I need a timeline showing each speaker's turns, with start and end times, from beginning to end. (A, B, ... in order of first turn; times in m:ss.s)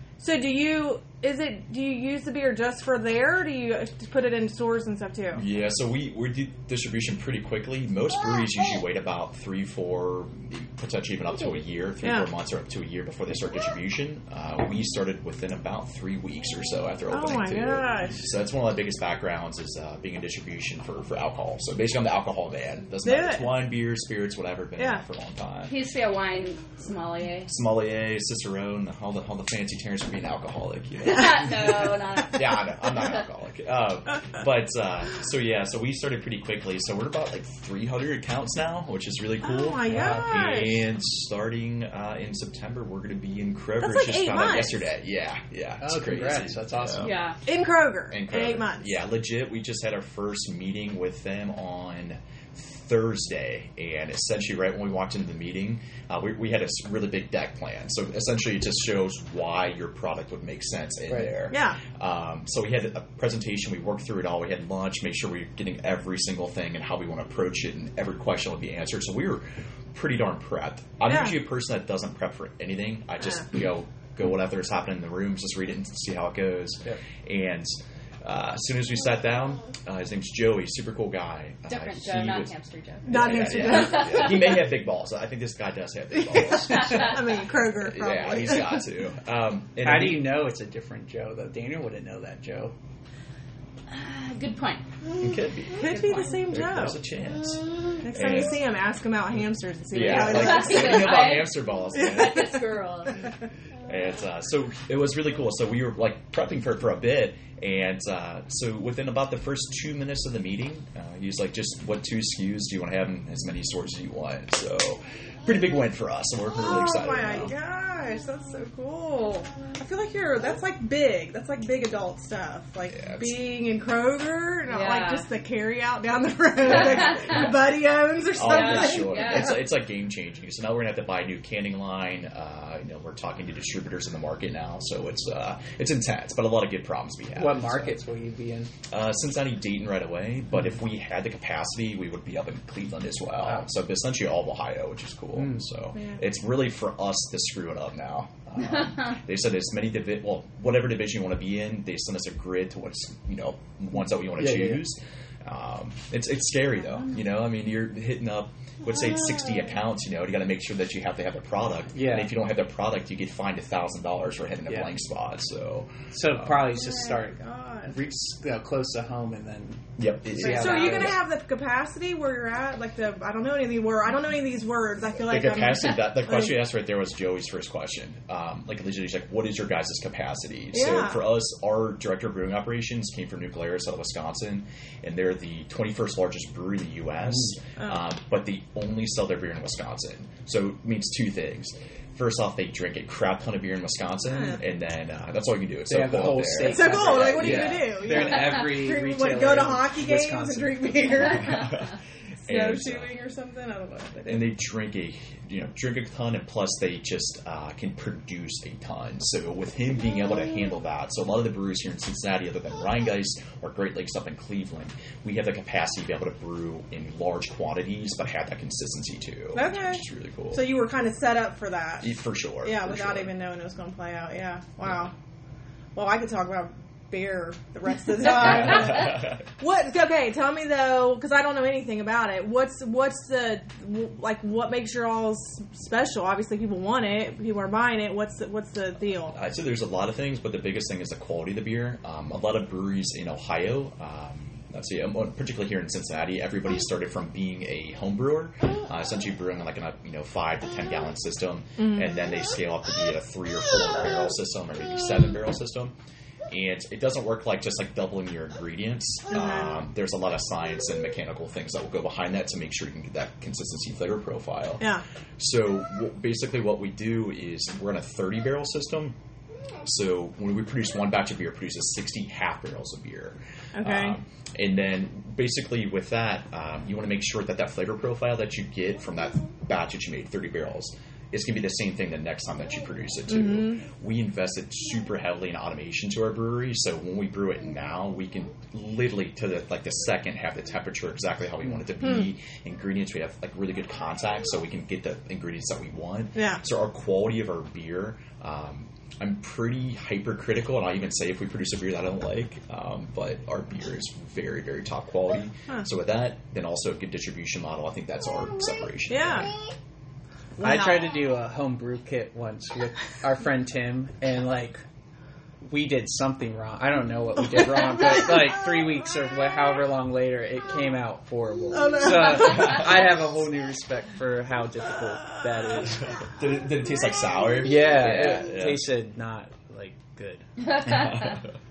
0:00.2-0:05.4 A
0:05.3-0:25.7 B
0:12.0-0:12.3 A
0:17.1-0:18.2 A
0:23.0-0:23.5 A
0:24.8-0:25.0 A
0:25.7-0:27.5 C
0:27.5-0:47.1 B
0:31.0-0:33.2 C
0:39.4-0:40.9 A
0:39.8-0:40.4 D
0:43.8-0:44.8 A
0:45.8-0:47.2 D
0:47.0-0:47.4 C
0:47.4-0:48.9 A
0:48.1-1:22.5 B
1:01.5-1:01.8 A
1:11.1-1:11.4 A
1:21.7-1:24.6 C
1:23.0-1:24.5 A
1:23.0-1:30.3 B
1:26.2-1:28.8 A
1:26.7-1:27.1 C
1:29.8-1:32.7 D
1:33.9-1:34.8 C
1:35.1-1:38.6 B
1:35.7-1:37.0 A
1:35.8-1:36.4 C
1:38.0-1:41.3 A
1:39.9-1:42.7 B
1:40.3-1:43.1 C
1:42.0-1:42.4 A
1:43.8-1:57.5 B
1:56.6-2:09.6 A
2:02.9-2:03.4 B
2:04.7-2:05.2 C
2:06.6-2:07.5 B
2:06.7-2:07.4 C
2:08.3-2:18.0 B
2:08.4-2:09.6 C
2:17.4-2:18.7 D
2:18.9-2:46.7 B
2:25.4-2:25.6 D
2:34.4-2:34.8 D
2:41.9-2:42.3 D
2:46.1-2:47.4 D
2:46.7-2:48.0 A
2:47.9-2:51.2 D
2:50.0-2:51.1 B
2:50.4-2:56.6 A
2:55.3-3:17.9 B
3:00.7-3:01.2 A
3:07.8-3:08.0 A
3:14.2-3:14.6 A
3:15.9-3:21.3 D
3:16.6-3:21.8 A
3:18.2-3:18.6 C
3:21.2-3:21.9 C
3:21.4-3:23.1 B
3:22.4-3:24.5 A
3:24.2-3:40.7 B
3:39.5-3:45.1 A
3:42.0-3:43.3 B
3:45.9-3:59.4 A
3:48.3-3:49.5 B
3:59.3-4:15.9 B
4:11.8-4:12.3 A
4:16.5-4:29.2 B
4:19.3-4:19.7 A
4:24.8-4:25.0 A
4:29.8-5:09.5 B
4:33.7-4:34.2 A
4:43.3-4:43.8 A
4:52.0-4:52.3 A
4:56.3-4:56.6 A
5:09.1-5:09.5 A
5:10.6-5:11.1 A
5:10.6-5:14.8 D
5:15.6-5:26.1 D
5:17.6-5:18.6 A
5:21.7-5:22.8 A
5:22.4-5:23.0 B
5:26.1-5:28.8 B
5:27.6-5:30.5 D
5:30.6-5:31.4 C
5:30.8-5:31.5 B